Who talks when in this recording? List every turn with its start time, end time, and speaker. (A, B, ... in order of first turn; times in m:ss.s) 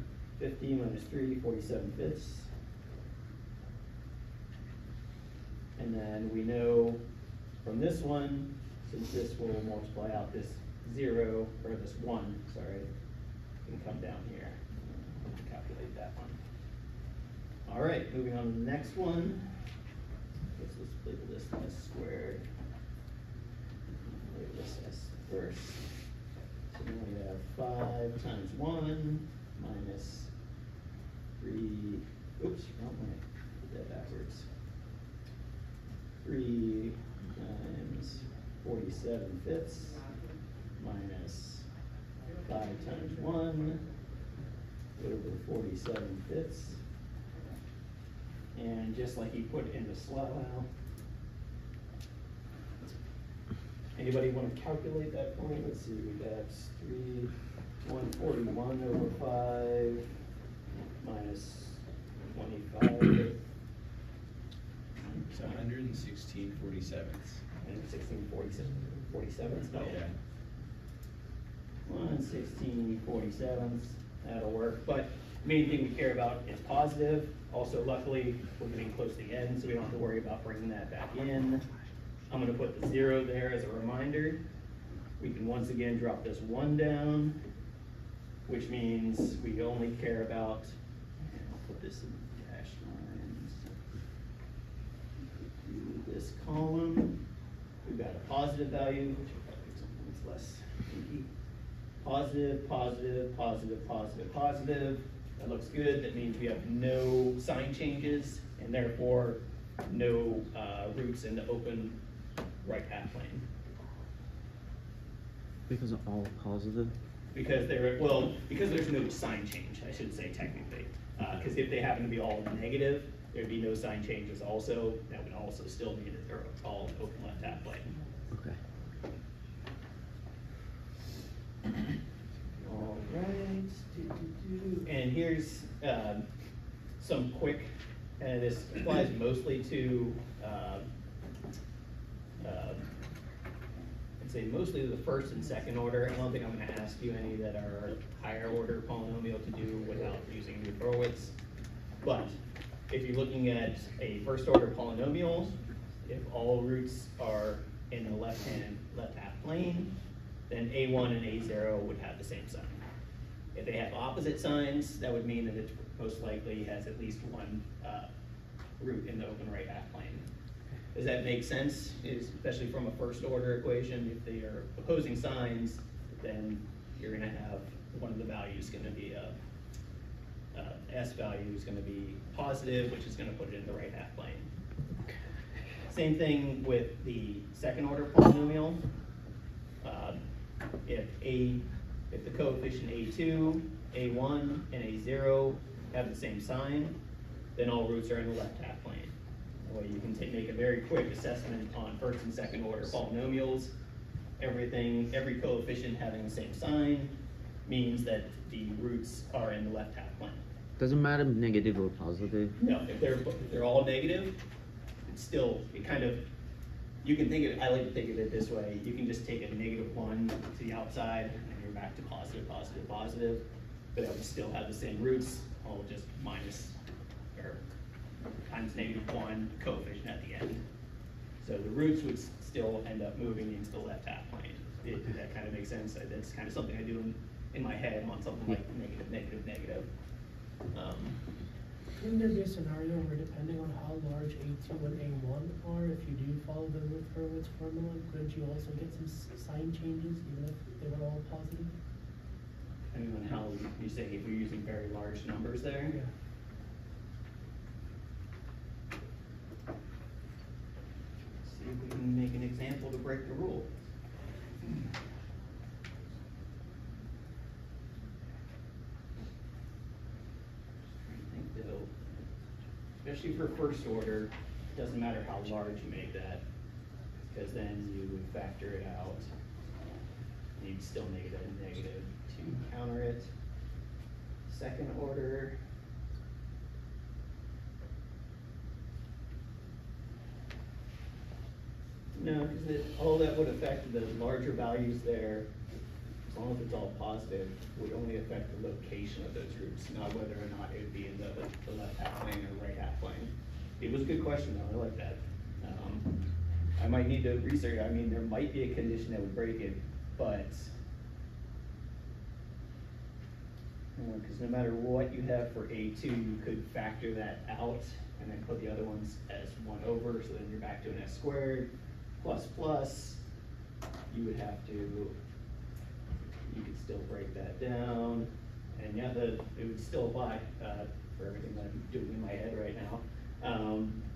0:00.4-0:02.5 A
0:05.8-0:07.0 A
0:07.6-0:12.9 A
0:13.6-0:16.4 A
0:17.7-0:19.5 A
0:20.6-0:22.4 A
0:24.0-0:25.9 A
0:26.7-0:30.3 A
0:31.4-0:34.5 A
0:36.2-0:40.0 A
0:40.8-0:41.7 A
0:42.4-0:43.8 A
0:45.0-0:46.8 A
0:48.5-0:50.7 A
0:54.0-0:57.3 A
0:57.8-1:00.1 A
1:01.0-1:03.4 A
1:05.1-1:05.6 A
1:05.3-1:07.4 B
1:07.6-1:10.0 A
1:09.8-1:10.1 B
1:11.9-1:21.6 A
1:22.3-1:24.4 A
1:25.2-1:27.4 A
1:28.5-1:33.8 A
1:35.6-1:37.2 A
1:37.8-1:41.3 A
1:42.0-1:52.0 A
1:52.6-1:53.4 A
1:55.7-1:56.9 C
1:57.3-2:07.9 A
2:08.3-2:08.6 C
2:12.6-2:16.3 A
2:17.0-2:20.8 A
2:22.4-2:22.9 A
2:24.2-2:31.3 A
2:32.0-2:32.4 A
2:32.9-2:40.0 A
2:40.5-2:42.8 A
2:43.5-2:48.1 A
2:48.8-2:50.3 A
2:50.9-2:59.4 A
3:00.5-3:04.5 A
3:05.9-3:08.8 A
3:09.8-3:10.2 A
3:10.8-3:17.0 A
3:17.6-3:19.1 A
3:19.6-3:23.7 A
3:24.4-3:30.4 A
3:30.8-3:32.6 C
3:32.6-3:34.4 A
3:35.1-3:36.3 A
3:37.0-3:46.8 A
3:47.4-3:47.6 A
3:48.5-3:50.6 A
3:51.4-3:59.9 A
4:00.7-4:01.2 A
4:02.0-4:11.7 D
4:12.9-4:16.0 A
4:21.4-4:23.7 A
4:31.0-4:32.3 A
4:33.0-4:36.4 A
4:37.2-4:39.3 A
4:40.6-4:43.3 A
4:44.5-4:45.6 A
4:52.2-4:55.5 A
4:56.2-5:06.2 A
5:06.8-5:10.7 A
5:14.0-5:23.2 A
5:24.1-5:25.2 A
5:26.5-5:34.0 A